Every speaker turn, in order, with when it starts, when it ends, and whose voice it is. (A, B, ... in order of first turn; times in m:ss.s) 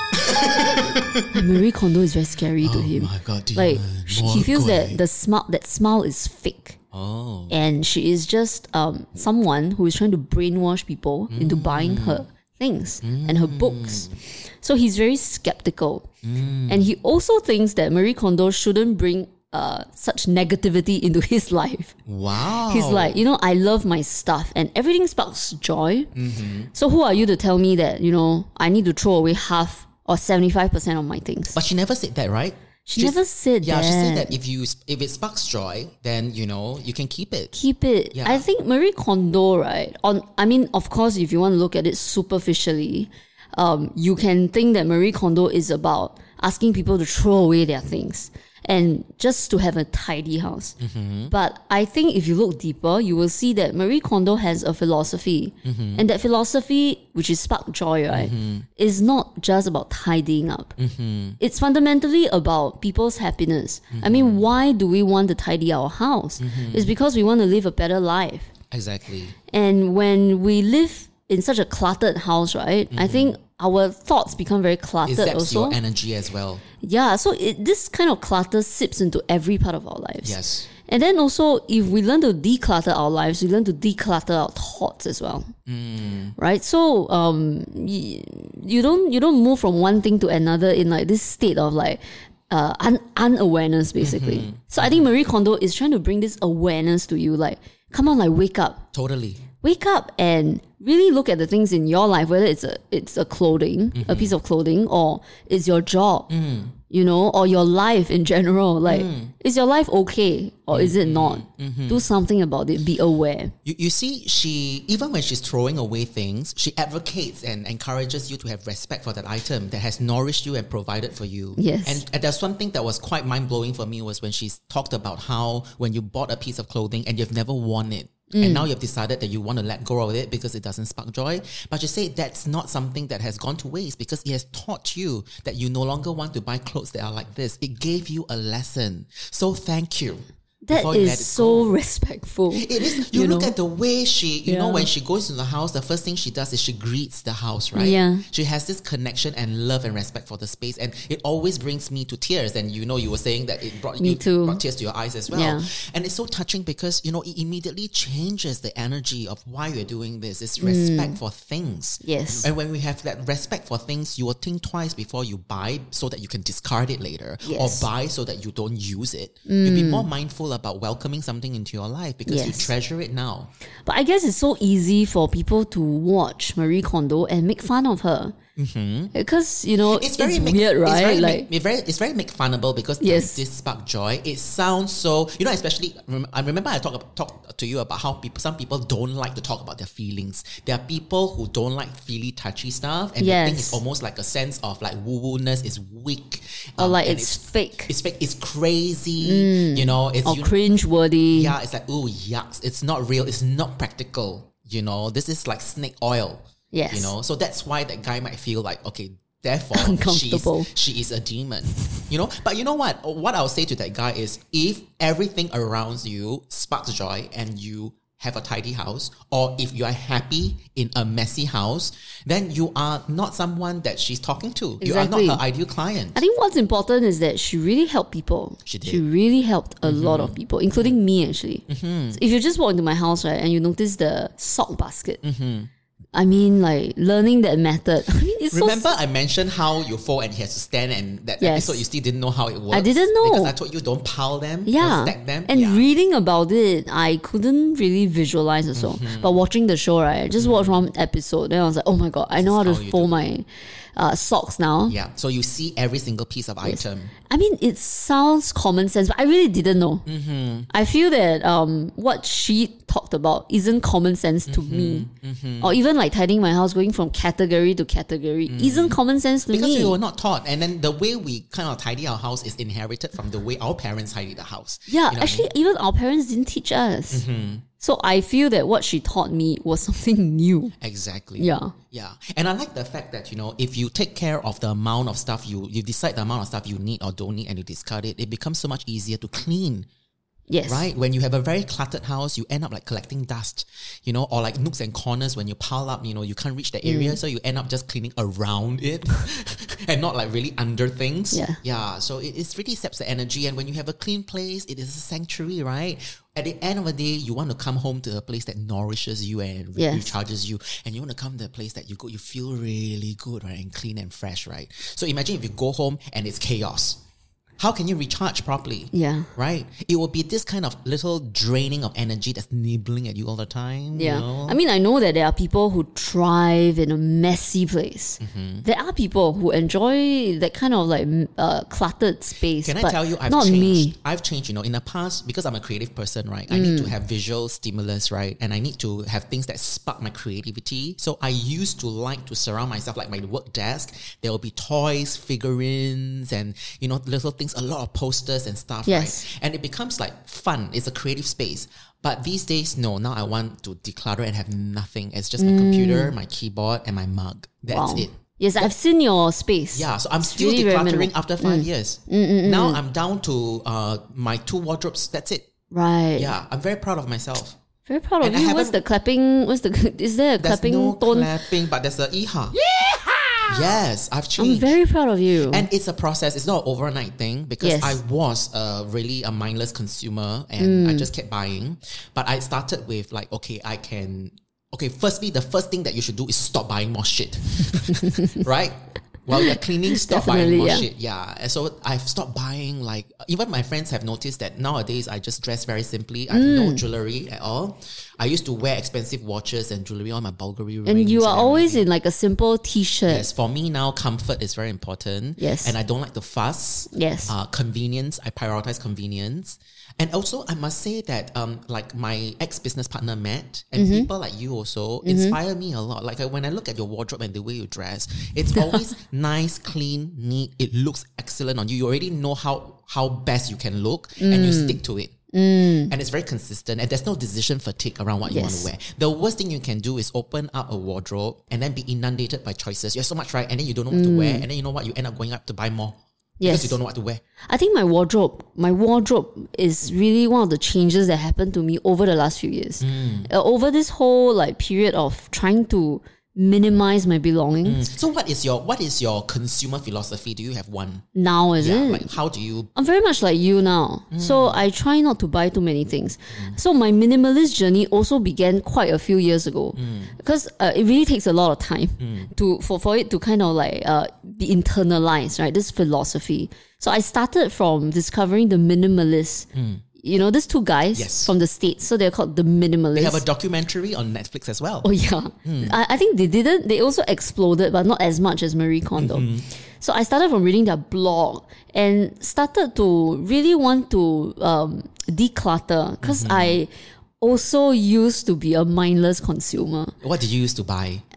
0:00.2-0:01.2 A
0:01.3-0:06.8 B
0:02.6-0:05.0 A
0:06.9-0:07.6 A
0:07.5-0:16.1 B
0:11.3-0:12.2 A
0:13.0-0:14.2 A
0:16.2-0:16.9 A
0:16.7-0:22.0 B
0:22.1-0:23.2 A
0:22.7-0:26.1 B
0:26.2-0:26.7 A
0:26.7-0:31.6 B
0:31.5-0:37.6 A
0:32.9-0:34.4 B
0:37.5-0:50.8 B
0:38.1-0:38.4 A
0:50.8-0:51.3 A
0:51.3-1:00.8 B
0:55.6-0:56.0 A
0:58.1-0:58.7 A
1:00.8-1:01.4 A
1:01.4-1:08.5 B
1:03.9-1:04.4 A
1:06.4-1:06.9 A
1:08.7-1:09.4 A
1:09.5-1:15.8 B
1:12.9-1:13.4 A
1:15.0-1:16.6 A
1:16.8-1:25.5 B
1:20.2-1:20.7 A
1:25.7-1:26.4 A
1:26.4-1:38.8 B
1:34.0-1:35.1 A
1:38.9-1:39.4 A
1:39.6-1:46.3 B
1:44.0-1:44.4 A
1:46.3-1:46.8 A
1:46.9-1:53.5 B
1:48.9-1:49.3 A
1:50.7-1:52.1 A
1:53.6-2:21.7 A
2:01.6-2:02.0 B
2:08.3-2:08.7 B
2:20.6-2:23.5 B
2:22.5-2:53.5 A
2:24.5-2:24.9 B
2:27.8-2:28.2 B
2:34.0-2:34.6 B
2:35.3-2:35.7 B
2:40.6-2:41.2 B
2:42.0-2:42.5 B
2:47.4-2:47.9 B
2:49.5-2:50.1 B
2:52.3-2:52.7 B
2:53.9-2:58.4 B
2:58.6-2:59.1 A
2:59.1-3:01.5 B
2:59.9-3:20.6 A
3:03.0-3:03.4 B
3:13.2-3:13.8 B
3:16.8-3:17.9 B
3:19.2-3:21.6 B
3:21.3-3:46.2 A
3:26.7-3:27.1 B
3:29.7-3:30.7 B
3:44.8-3:45.4 B
3:46.2-3:55.2 B
3:48.6-3:49.0 A
3:49.8-3:51.0 A
3:51.7-3:52.2 A
3:55.2-3:55.7 A
3:56.1-3:58.9 B
3:58.5-4:05.9 A
4:01.4-4:01.8 B
4:02.7-4:03.5 B
4:04.7-4:15.0 B
4:08.8-4:09.4 A
4:10.4-4:10.8 A
4:12.4-4:13.3 A
4:14.9-4:17.1 A
4:16.6-4:20.0 B
4:20.1-4:20.7 A
4:20.7-4:25.1 B
4:24.5-4:25.8 A
4:25.6-4:30.0 B
4:28.5-4:35.5 A
4:34.9-4:37.2 B
4:37.1-4:37.6 A
4:37.8-4:40.7 B
4:40.8-4:49.9 A
4:41.4-4:41.7 B
4:50.5-4:50.9 B
4:50.7-5:17.0 A
4:56.8-4:57.2 B
5:01.3-5:01.6 B
5:09.8-5:10.1 B
5:17.6-5:24.6 A
5:18.9-5:19.3 B
5:24.0-5:34.0 B
5:28.2-5:28.7 A
5:32.6-5:58.7 A
5:36.5-5:36.9 B
5:48.9-5:49.2 B
5:55.4-5:56.2 B
5:57.7-6:02.8 B
5:59.7-6:05.5 A
6:05.7-6:06.3 B
6:06.2-6:07.6 A
6:07.9-6:11.3 B
6:08.2-6:08.8 A
6:10.4-6:12.6 A
6:13.4-6:14.8 A
6:14.4-6:15.7 B
6:15.5-6:41.9 A
6:17.6-6:18.0 B
6:20.6-6:21.1 B
6:28.0-6:28.4 B
6:29.4-6:30.9 B
6:36.3-6:36.8 B
6:40.9-6:43.3 B
6:43.1-7:05.2 A
6:45.4-6:45.8 B
6:46.9-6:47.3 B
6:53.8-6:54.1 B
6:55.0-6:55.4 B
6:58.6-6:58.8 B
7:04.2-7:04.8 B
7:05.3-7:05.9 B
7:05.9-7:17.2 A
7:08.3-7:08.7 B
7:13.9-7:14.5 B
7:16.4-7:16.8 B
7:17.5-7:27.9 B
7:22.8-7:23.3 A
7:27.6-7:31.1 A
7:31.2-7:32.1 B
7:31.6-7:32.7 A
7:32.8-7:49.5 B
7:34.1-7:34.6 A
7:39.8-7:40.2 A
7:42.0-7:42.3 A
7:49.5-7:49.8 A
7:50.0-7:53.2 B
7:50.9-7:51.3 A
7:52.9-7:54.9 A
7:54.8-7:59.3 B
7:55.4-7:55.8 A
7:59.0-7:59.5 A
7:59.8-8:06.7 B
8:06.0-8:06.6 A
8:07.2-8:09.9 B
8:10.0-8:11.0 A